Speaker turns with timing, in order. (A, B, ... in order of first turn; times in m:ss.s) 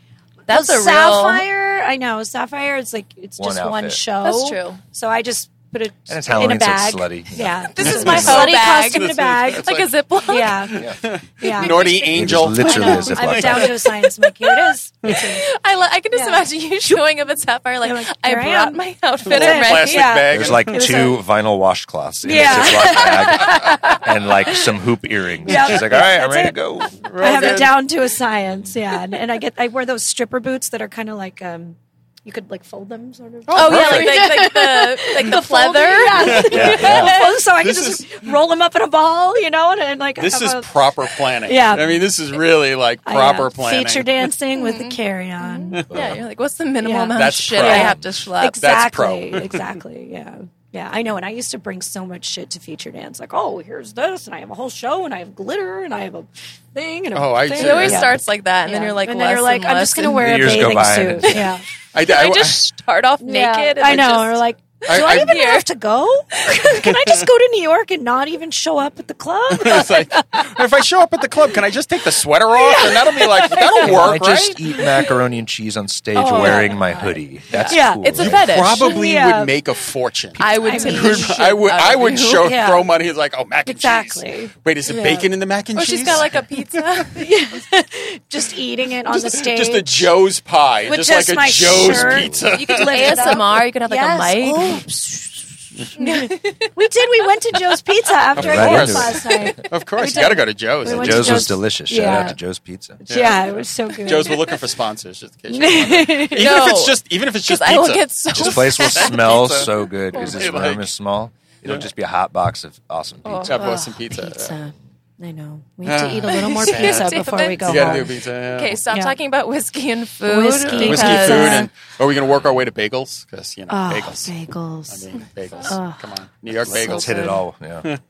0:00.5-0:01.4 A
0:00.5-0:09.7 B
0:03.4-0:04.0 C
0:04.2-0:04.8 A
0:06.1-0:08.5 C
0:07.7-0:10.7 A
0:07.8-0:09.9 D
0:10.2-0:15.4 B
0:10.7-0:14.0 D
0:11.6-0:12.1 A
0:12.1-0:13.7 C
0:15.0-0:15.3 D
0:15.0-0:20.2 A
0:16.1-0:17.0 B
0:17.8-0:21.2 B
0:19.2-0:21.1 D
0:20.3-0:27.0 C
0:22.2-0:24.7 B
0:22.4-0:22.8 D
0:25.4-0:42.1 B
0:25.5-0:26.0 D
0:27.0-0:27.8 D
0:33.5-0:34.3 D
0:33.5-0:37.1 A
0:36.1-0:38.3 D
0:36.3-0:37.2 C
0:40.2-0:44.3 D
0:43.0-0:45.8 B
0:44.6-0:48.6 A
0:45.9-0:46.2 C
0:46.8-1:01.6 B
0:47.1-0:48.0 D
0:47.6-0:48.1 C
0:48.6-0:49.7 D
0:57.1-0:58.1 D
0:57.5-1:00.6 A
1:00.1-1:01.5 C
1:01.9-1:02.6 D
1:02.0-1:05.6 A
1:03.2-1:10.6 B
1:04.8-1:05.4 D
1:06.3-1:06.7 A
1:06.8-1:07.2 D
1:09.5-1:14.6 D
1:12.5-1:14.2 B
1:13.8-1:18.5 C
1:14.7-1:15.2 B
1:16.1-1:19.6 B
1:17.5-1:18.9 A
1:18.2-1:26.8 D
1:20.4-1:22.6 A
1:20.4-1:21.4 B
1:22.4-1:22.9 B
1:23.6-1:25.3 B
1:25.8-1:27.3 A
1:27.1-1:30.1 B
1:29.1-1:33.4 D
1:30.8-1:42.4 B
1:31.6-1:32.5 C
1:32.5-1:34.8 A
1:36.0-1:36.7 A
1:38.3-1:41.6 D
1:38.4-1:39.5 C
1:40.8-1:43.0 C
1:43.0-1:44.6 B
1:43.1-1:50.9 D
1:45.5-1:46.6 B
1:46.4-1:49.2 A
1:48.3-1:53.6 C
1:53.2-1:53.9 A
1:53.4-1:54.6 D
1:54.1-1:58.2 B
1:55.8-1:58.8 D
1:56.3-2:01.7 A
1:58.9-1:59.1 B
2:00.2-2:01.7 B
2:00.5-2:01.1 C
2:00.7-2:04.3 D
2:03.7-2:05.1 B
2:04.9-2:07.2 D
2:05.6-2:06.1 B
2:06.6-2:07.4 B
2:06.7-2:07.9 C